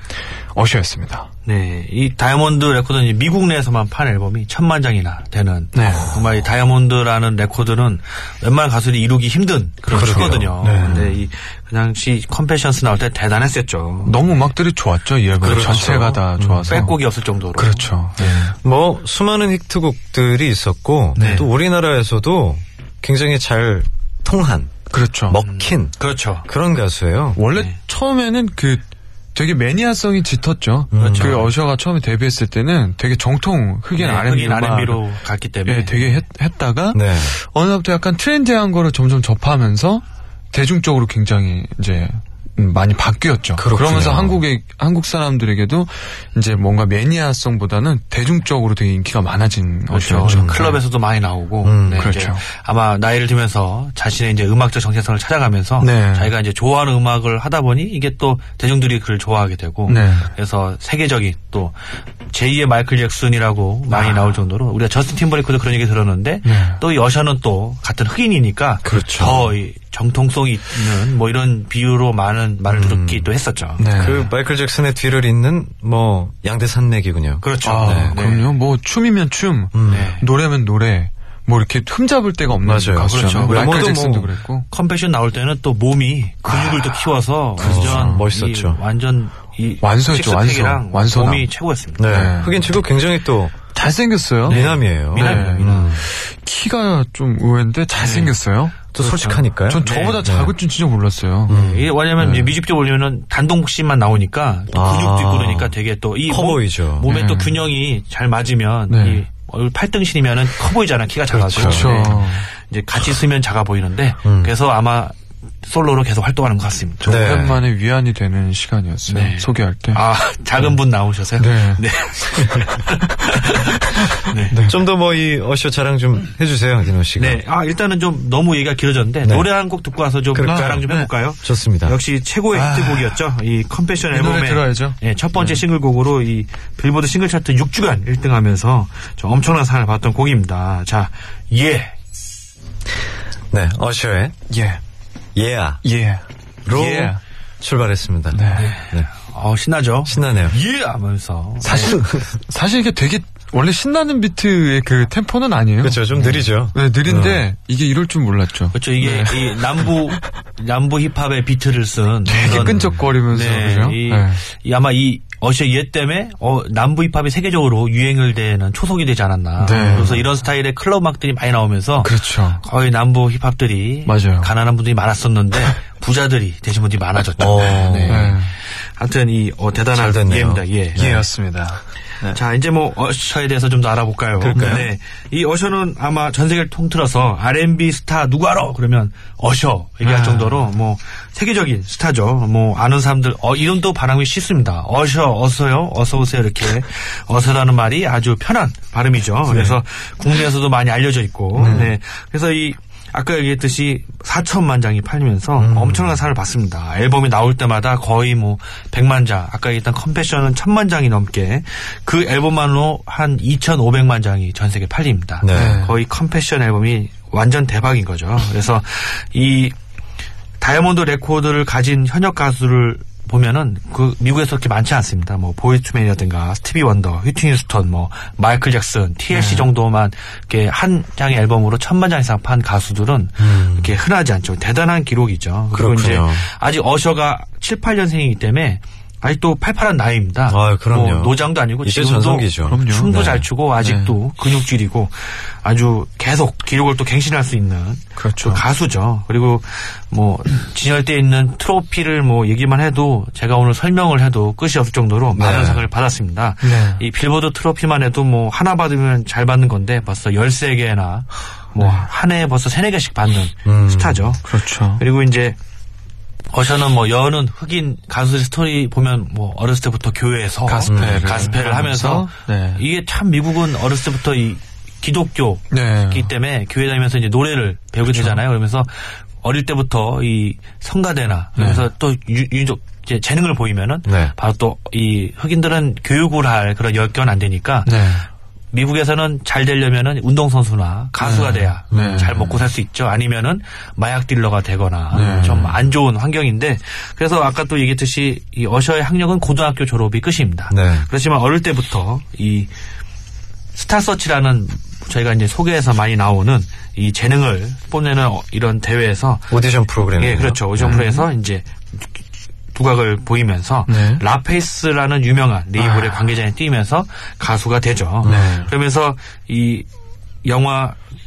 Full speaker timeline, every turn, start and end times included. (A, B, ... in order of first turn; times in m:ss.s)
0:00.5-0:01.3 A
0:01.4-0:14.4 B
0:05.7-0:06.2 A
0:09.9-0:11.1 A
0:09.9-0:11.2 C
0:14.0-0:17.0 A
0:15.4-0:16.8 C
0:15.4-0:18.3 B
0:17.6-0:18.6 A
0:18.6-0:24.7 C
0:21.2-0:21.5 B
0:24.9-0:25.4 A
0:25.3-0:27.4 C
0:25.3-0:26.4 B
0:27.4-0:35.0 A
0:30.9-0:31.5 C
0:31.0-0:31.5 B
0:33.9-0:36.2 B
0:35.7-0:50.8 A
0:36.9-0:37.4 C
0:43.6-0:44.4 C
0:49.9-1:01.8 B
0:50.2-0:50.7 C
0:51.6-0:52.1 C
0:51.9-0:52.4 A
0:55.8-0:56.3 A
0:59.9-1:00.3 A
1:02.3-1:14.3 B
1:06.4-1:06.8 A
1:08.8-1:09.5 C
1:12.7-1:13.3 C
1:13.8-1:14.3 A
1:14.0-1:18.2 C
1:17.4-1:18.5 B
1:17.6-1:24.7 A
1:19.7-1:20.1 C
1:19.9-1:20.3 B
1:22.6-1:24.3 C
1:23.1-1:24.1 B
1:24.7-1:32.3 B
1:26.4-1:28.3 A
1:27.6-1:28.8 C
1:29.8-1:31.5 A
1:32.0-1:33.6 C
1:32.0-1:32.8 A
1:33.7-1:38.8 A
1:34.4-1:35.9 B
1:34.5-1:36.1 C
1:38.0-1:38.3 B
1:38.9-1:40.5 C
1:39.0-1:40.2 B
1:39.7-1:41.6 A
1:41.5-1:42.4 C
1:41.5-1:57.2 B
1:44.7-1:45.7 C
1:46.3-1:47.1 C
1:47.1-1:47.6 A
1:48.9-1:49.2 A
1:51.3-1:51.9 C
1:51.6-1:52.4 A
1:54.2-1:54.5 C
1:57.0-2:00.0 A
1:57.0-1:57.6 C
1:59.1-2:04.6 B
2:01.4-2:01.8 A
2:03.3-2:04.8 A
2:04.7-2:07.4 C
2:07.2-2:21.9 B
2:09.2-2:09.5 C
2:10.3-2:12.0 C
2:10.4-2:11.1 A
2:12.5-2:13.2 A
2:14.1-2:15.0 A
2:23.5-2:24.3 C
2:24.5-2:24.8 A
2:25.3-2:25.8 C
2:25.8-2:27.2 A
2:26.7-2:29.1 C
2:28.3-2:28.7 A
2:28.5-2:32.0 B
2:30.1-2:30.6 C
2:31.6-2:40.0 A
2:31.7-2:32.2 C
2:35.8-2:37.4 C
2:38.7-2:58.4 B
2:42.3-2:44.4 A
2:42.4-2:43.0 C
2:49.6-2:50.2 A
2:49.7-2:50.2 C
2:52.0-2:52.6 A
2:54.1-2:54.5 A
2:57.4-2:58.3 C
2:57.9-2:58.5 A
2:59.0-3:01.1 B
2:59.9-3:01.3 C
3:01.0-3:02.4 A
3:02.3-3:39.7 B
3:04.4-3:04.9 C
3:04.5-3:04.9 A
3:10.0-3:10.7 A
3:19.5-3:19.8 C
3:21.6-3:21.9 C
3:21.6-3:21.9 A
3:25.6-3:26.2 C
3:35.4-3:35.8 C
3:35.5-3:36.0 A
3:40.6-4:25.6 B
3:49.3-3:49.7 A
3:53.4-3:53.9 C
3:55.7-3:56.4 C
4:00.5-4:03.4 C
4:02.6-4:03.3 A
4:03.8-4:04.2 A
4:08.2-4:08.6 A
4:15.3-4:15.8 C
4:16.6-4:17.0 A
4:21.8-4:22.0 A
4:23.6-4:24.2 C
4:24.4-4:25.0 A
4:26.5-4:48.1 B
4:30.7-4:32.8 A
4:30.9-4:31.3 C
4:35.7-4:36.3 A
4:38.1-4:38.4 A
4:41.6-4:41.8 A
4:44.1-4:44.3 C
4:47.8-4:48.2 A
4:48.7-5:02.7 B
4:51.2-4:52.4 A
4:51.9-4:52.5 C
4:55.1-4:55.7 A
4:55.2-4:55.6 C
5:00.7-5:01.1 C
5:03.7-5:09.5 B
5:09.5-5:11.0 C
5:10.0-5:11.7 B
5:10.8-5:11.3 A
5:12.7-5:19.9 B
5:13.9-5:14.2 A
5:15.8-5:16.1 C
5:18.2-5:18.6 C
5:18.3-5:18.7 A
5:20.4-5:21.0 B